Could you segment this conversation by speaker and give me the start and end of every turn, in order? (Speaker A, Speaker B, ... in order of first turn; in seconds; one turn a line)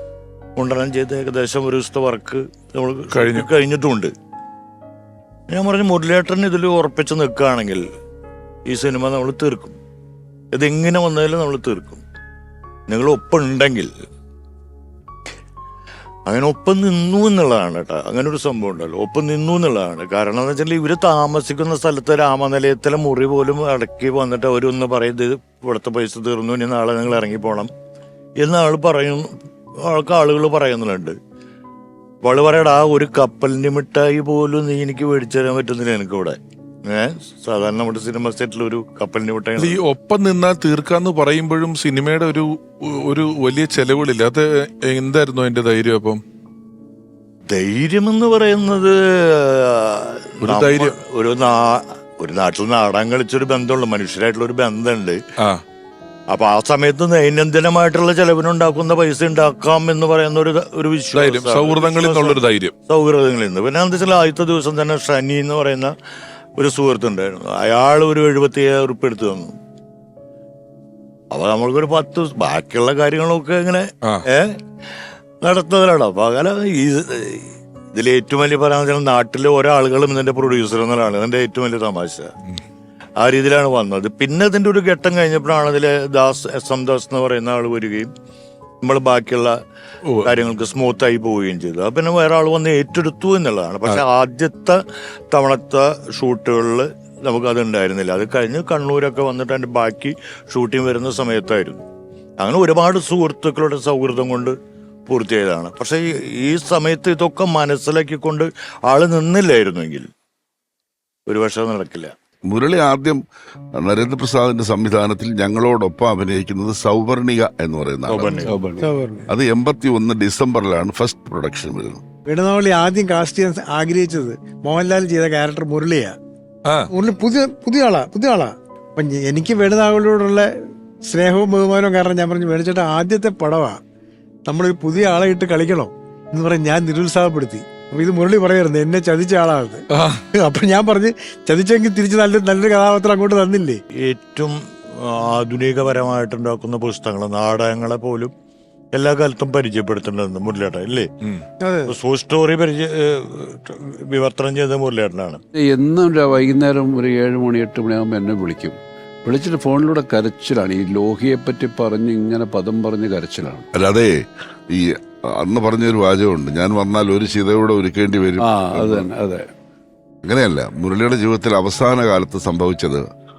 Speaker A: 0.6-4.1
Speaker B: 3.1-3.5
Speaker A: 5.5-7.8
Speaker A: 8.7-9.8
Speaker A: 10.5-12.0
Speaker A: 12.9-13.9
Speaker A: 16.3-27.7
Speaker A: 28.4-29.3
Speaker A: 29.9-31.1
Speaker A: 32.2-39.8
Speaker B: 39.6-46.2
Speaker A: 47.5-55.2
Speaker B: 50.4-51.0
Speaker A: 56.3-65.9
Speaker B: 61.1-62.7
Speaker A: 66.6-69.5
Speaker A: 71.3-74.5
Speaker A: 75.4-82.3
Speaker A: 83.2-88.1
Speaker A: 88.8-89.6
Speaker B: 90.0-90.3
Speaker A: 90.2-94.8
Speaker A: 95.3-101.8
Speaker A: 102.4-104.5
Speaker A: 105.1-110.1
Speaker A: 111.3-112.1
Speaker C: 112.5-113.2
Speaker C: 113.8-118.4
Speaker B: 118.1-118.5
Speaker D: 118.3-119.3
Speaker E: 118.5-118.9
Speaker C: 119.3-122.0
Speaker D: 122.3-126.1
Speaker D: 126.9-130.5
Speaker D: 131.1-133.8
Speaker D: 134.5-143.8
Speaker B: 139.9-140.2
Speaker A: 144.0-148.3
Speaker A: 148.9-151.1
Speaker D: 151.6-151.9
Speaker A: 151.9-155.4
Speaker E: 155.6-163.7
Speaker C: 163.8-164.2
Speaker C: 164.7-169.1
Speaker E: 168.4-169.5
Speaker C: 170.2-173.1